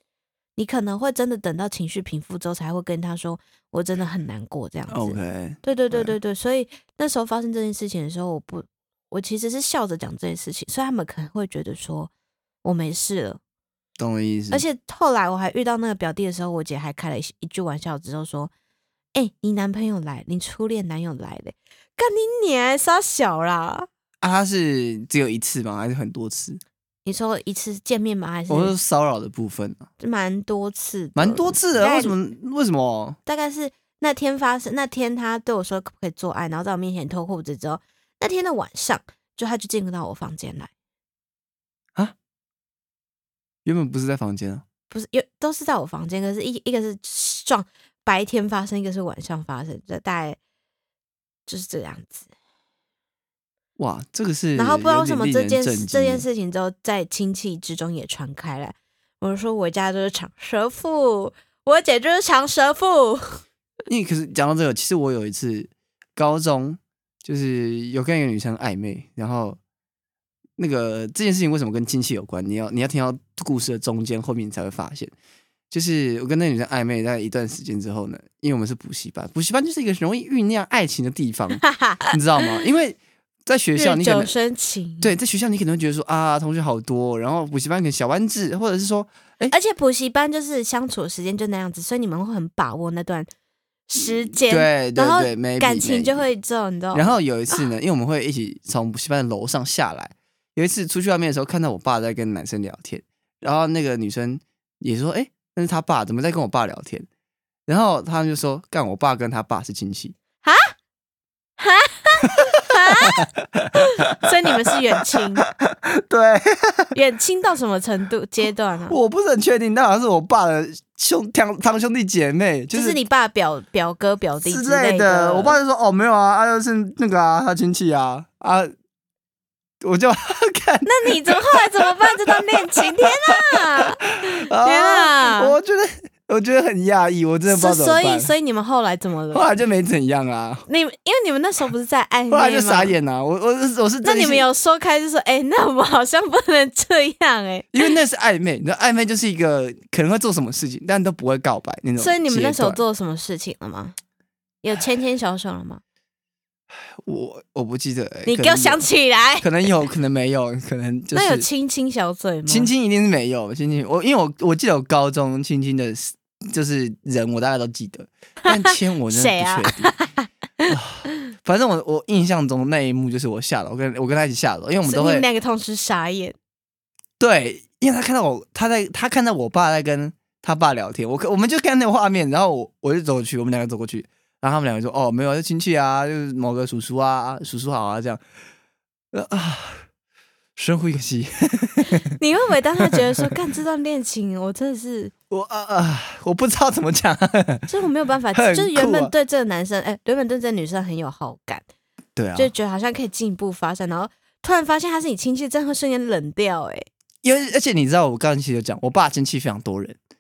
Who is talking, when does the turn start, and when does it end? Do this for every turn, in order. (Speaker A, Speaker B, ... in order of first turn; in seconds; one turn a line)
Speaker A: 0.6-12.1
Speaker B: 4.9-6.2
Speaker A: 12.6-13.4
Speaker B: 14.0-14.7
Speaker A: 14.5-18.5
Speaker A: 19.1-23.9
Speaker B: 24.2-26.6
Speaker A: 27.1-28.7
Speaker B: 28.5-29.9
Speaker A: 30.0-32.2
Speaker B: 31.1-33.2
Speaker A: 33.3-40.7
Speaker B: 43.6-44.6
Speaker A: 44.9-50.4
Speaker A: 51.5-52.3
Speaker B: 53.8-56.3
Speaker A: 54.5-63.4
Speaker B: 63.9-69.6
Speaker B: 70.6-75.1
Speaker B: 75.7-84.3
Speaker A: 81.6-82.5
Speaker A: 83.8-85.1
Speaker B: 85.0-89.5
Speaker A: 89.5-93.3
Speaker A: 93.9-97.7
Speaker B: 94.0-96.2
Speaker B: 96.9-107.1
Speaker B: 107.7-110.2
Speaker A: 110.4-110.7
Speaker A: 111.6-115.5
Speaker B: 113.0-114.3
Speaker B: 115.4-116.9
Speaker A: 116.9-119.0
Speaker B: 118.9-123.0
Speaker A: 122.7-125.6
Speaker B: 124.4-128.7
Speaker B: 129.8-138.3
Speaker A: 130.8-135.6
Speaker A: 137.5-139.5
Speaker B: 139.3-140.7
Speaker A: 140.7-143.0
Speaker B: 142.3-144.5
Speaker A: 144.0-147.9
Speaker B: 147.7-152.8
Speaker A: 152.0-154.0
Speaker A: 154.6-155.8
Speaker B: 157.0-158.8
Speaker A: 158.3-159.7
Speaker B: 159.4-161.5
Speaker A: 161.1-162.7
Speaker B: 162.5-169.9
Speaker A: 168.5-170.8
Speaker B: 170.7-175.3
Speaker A: 174.8-176.3
Speaker B: 177.2-188.2
Speaker B: 189.1-189.8
Speaker B: 190.6-192.1
Speaker A: 191.9-195.1
Speaker B: 192.8-193.2
Speaker B: 195.3-197.7
Speaker A: 197.7-201.7
Speaker B: 198.3-199.1
Speaker B: 202.2-202.5
Speaker A: 202.3-206.9
Speaker B: 207.2-210.0